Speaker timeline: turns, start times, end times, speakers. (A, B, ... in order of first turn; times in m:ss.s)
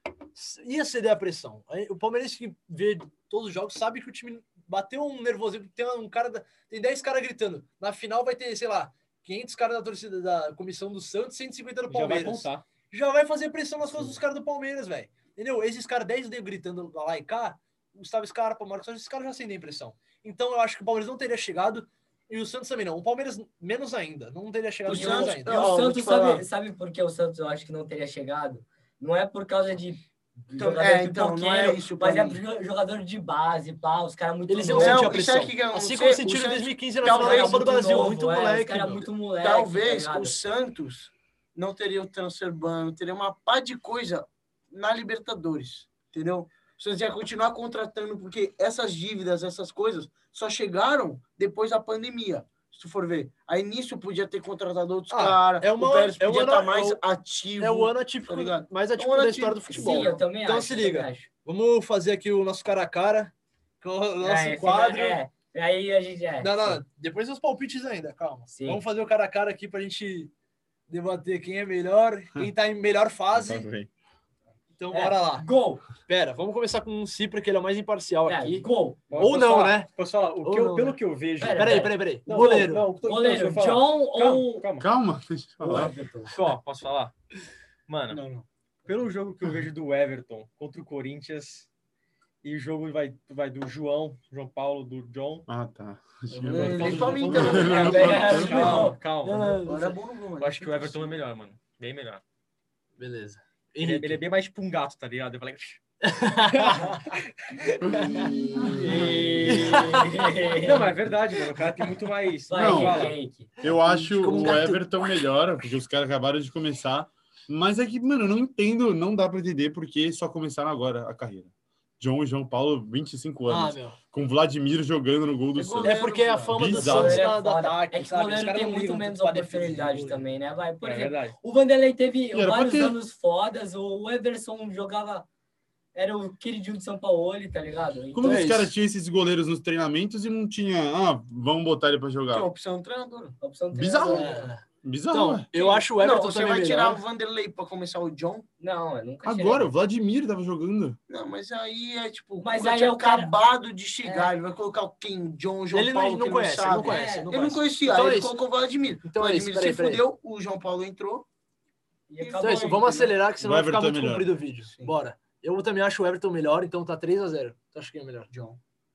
0:00.3-0:25.6 A
0:11.9-0:12.6 B
0:13.9-0:14.2 B
0:24.9-0:26.4 C
0:24.9-0:35.1 D
0:30.6-0:32.4 C
0:34.5-0:39.1 A
0:34.8-0:37.7 C
0:37.0-0:40.4 D
0:39.4-1:00.3 C
0:55.1-0:57.0 A
0:57.6-1:05.2 A
0:59.7-1:01.3 D
1:04.2-1:06.8 D
1:06.4-1:10.3 A
1:08.5-1:08.8 D
1:10.9-1:13.7 A
1:13.3-1:13.9 E
1:14.8-1:15.5 A
1:14.9-1:15.8 D
1:16.1-1:18.6 A
1:18.3-1:19.1 D
1:19.1-1:24.9 B
1:19.2-1:19.9 A
1:20.4-1:22.9 A
1:21.4-1:21.9 D
1:23.0-1:24.6 D
1:24.8-1:25.9 E
1:25.6-1:26.3 D
1:25.8-1:27.1 B
1:27.9-1:28.2 B
1:28.1-1:28.4 C
1:28.8-1:31.7 B
1:32.4-1:35.5 B
1:35.5-1:38.8 E
1:36.3-1:37.3 A
1:36.5-1:38.4 C
1:36.5-1:39.7 B
1:37.6-1:39.0 D
1:38.5-1:40.0 A
1:39.6-1:41.2 C
1:40.4-1:42.2 B
1:43.0-1:44.2 A
1:43.8-1:45.8 B
1:46.0-1:47.0 A
1:46.4-1:53.2 B
1:47.9-1:50.1 A
1:48.6-1:49.2 E
1:48.8-1:50.9 D
1:52.5-1:53.5 D
1:52.5-2:01.5 E
1:53.6-1:54.9 A
2:02.0-2:07.3 E
2:03.5-2:04.0 A
2:05.5-2:07.1 C
2:05.8-2:10.2 A
2:06.8-2:15.3 D
2:10.8-2:11.3 B
2:12.3-2:13.0 E
2:15.9-2:18.5 D
2:18.1-2:22.5 E
2:18.2-2:18.7 A
2:22.3-2:23.4 C
2:23.4-2:24.5 D
2:23.7-2:25.5 E
2:24.0-2:27.0 A
2:25.5-2:25.8 D
2:26.0-2:28.5 C
2:28.6-2:29.7 D
2:29.2-2:31.0 E
2:31.1-2:41.3 C
2:32.4-2:33.3 D
2:34.0-2:34.3 D
2:35.7-2:38.4 A
2:36.7-2:37.3 D
2:39.0-2:40.0 A
2:42.1-2:43.0 D
2:42.2-2:43.1 C
2:42.4-2:48.3 A
2:43.4-2:44.3 E
2:44.6-2:44.9 C
2:48.3-2:48.6 C